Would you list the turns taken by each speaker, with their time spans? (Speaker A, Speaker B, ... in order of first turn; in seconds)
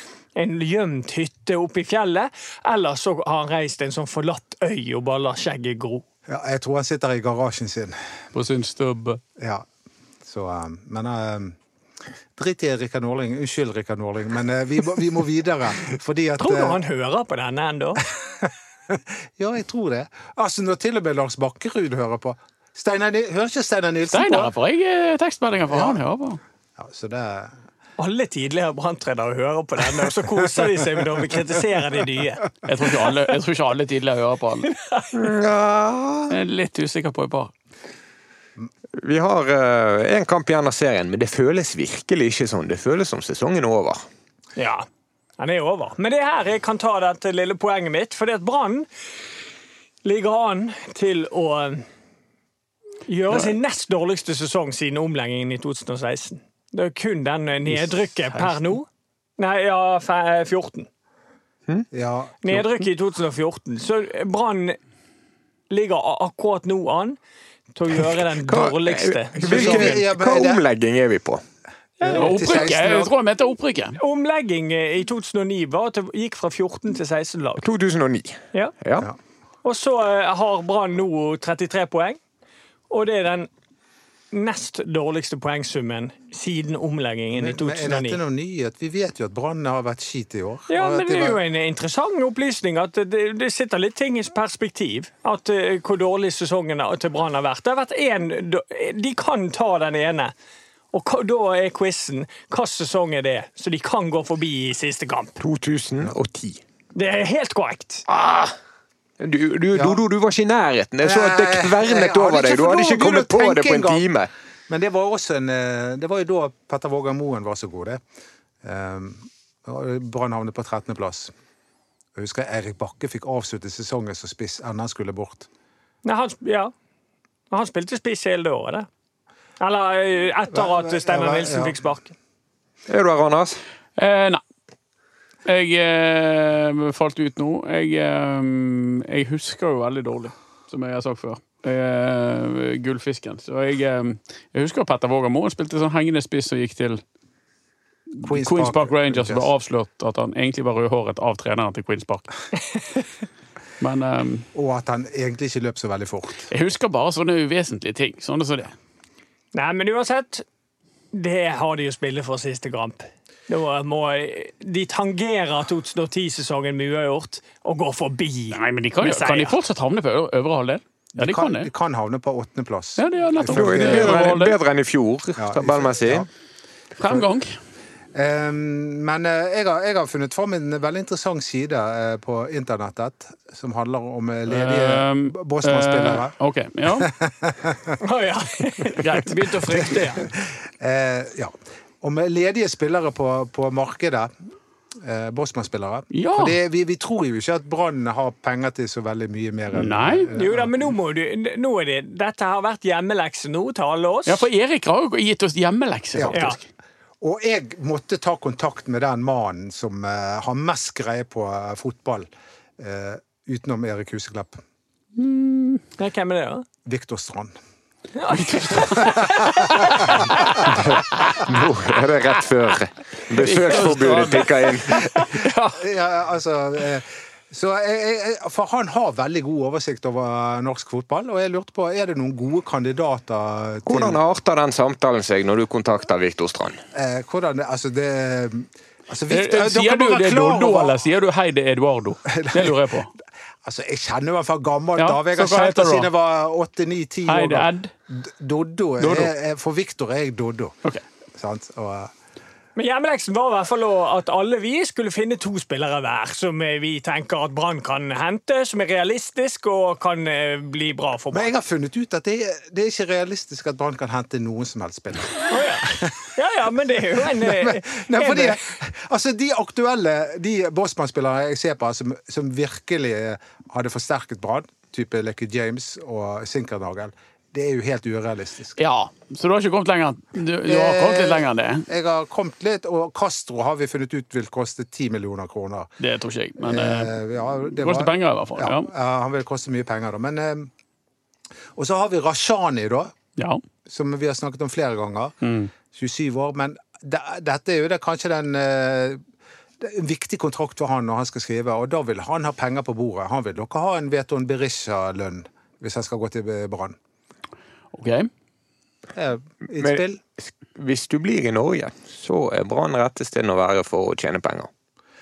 Speaker A: 0.3-6.0, 16.4-18.0, 28.0-32.5, 34.7-35.2, 44.6-44.9, 45.4-48.9, 50.0-51.8, 53.1-58.9, 59.4-60.9, 62.4-64.8, 65.7-67.2, 67.7-70.0, 72.0-72.4, 74.0-77.6, 79.6-82.2, 82.9-83.5, 84.3-88.2, 90.7-100.3, 100.9-105.4, 106.9-108.0, 126.0-126.7, 127.5-128.9, 129.6-132.1, 159.5-160.4, 161.1-169.6, 188.0-190.3, 200.3-204.5, 206.3-206.6, 216.0-216.7, 218.2-220.7, 252.8-261.5, 265.5-268.6
Speaker B: 6.3-8.0, 9.4-9.7, 10.2-11.6, 12.3-16.8, 18.4-24.5, 25.7-26.0, 26.8-27.5, 30.6-31.3, 61.9-62.4, 69.4-70.6, 72.0-73.1, 87.3-91.4, 109.7-110.0, 111.0-114.0, 114.7-118.0, 118.6-121.3, 122.1-125.5, 130.5-131.8, 148.2-149.5, 154.5-156.5, 171.2-174.3, 175.3-176.3, 178.1-186.3, 186.9-187.9, 189.7-194.3, 195.0-200.7, 206.1-206.6, 207.2-214.6, 216.8-217.5, 218.8-220.9, 225.1-234.2, 236.9-241.0, 242.2-242.8, 243.6-250.8, 251.3-252.1, 261.3-266.1, 267.2-278.8, 280.6-285.9, 286.6-290.7, 291.8-293.1, 293.9-299.2, 299.8-307.0, 309.1-310.2
Speaker C: 8.3-9.2, 24.1-26.4, 32.6-34.7, 36.3-37.5, 62.5-62.9, 72.1-74.0, 133.9-134.4, 135.4-147.0, 148.1-152.3, 153.8-154.5, 156.5-158.7, 168.5-171.7, 173.0-174.5, 177.0-177.6, 184.5-187.1, 189.0-190.0, 196.1-196.6, 199.7-200.3, 204.3-206.7, 215.2-215.8, 218.3-221.4, 223.3-225.8, 239.3-243.1, 245.0-246.1, 247.3-247.9, 249.0-249.3, 278.8-281.9, 286.0-288.9, 293.4-293.6, 295.4-295.7, 307.9-308.3
Speaker D: 35.1-36.3, 39.0-44.0, 68.4-71.4, 77.6-79.1, 105.4-106.6, 108.1-108.5, 109.2-114.3, 132.9-133.6, 173.5-176.2, 220.9-225.1, 233.8-236.8, 309.8-314.7